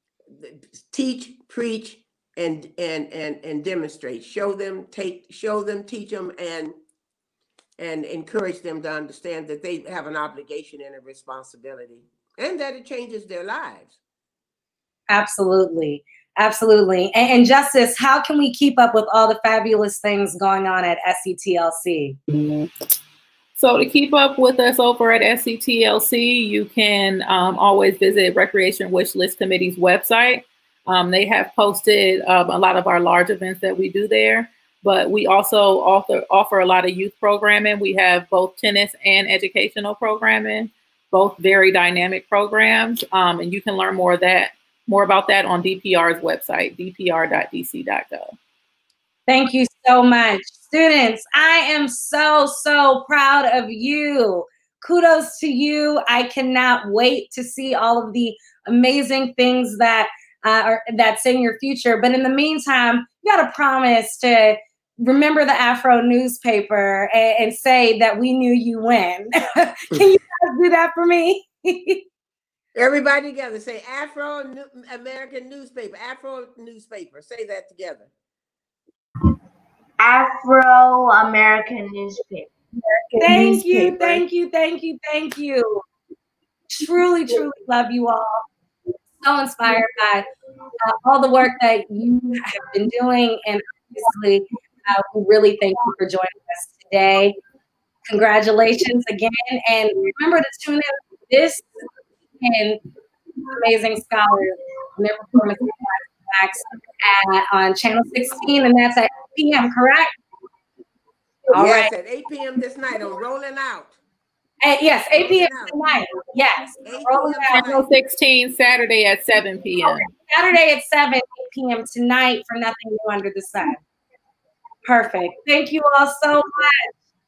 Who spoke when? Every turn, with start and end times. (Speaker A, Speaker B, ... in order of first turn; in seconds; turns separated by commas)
Speaker A: 0.4-6.7, Speaker A: 7.8-13.9, Speaker B: 15.1-22.2, Speaker C: 23.6-48.3, Speaker B: 49.3-72.0, Speaker A: 72.7-78.1, Speaker D: 80.0-82.5, Speaker B: 83.2-85.8, Speaker B: 86.7-88.4, Speaker B: 89.2-90.3, Speaker B: 90.8-97.4, Speaker B: 98.1-101.7, Speaker B: 102.4-102.8, Speaker B: 103.5-110.1, Speaker B: 111.5-111.9, Speaker A: 111.5-114.0, Speaker B: 114.6-117.6, Speaker A: 115.1-115.8, Speaker A: 116.7-117.8, Speaker C: 117.5-120.0, Speaker B: 120.3-123.8, Speaker B: 124.9-126.9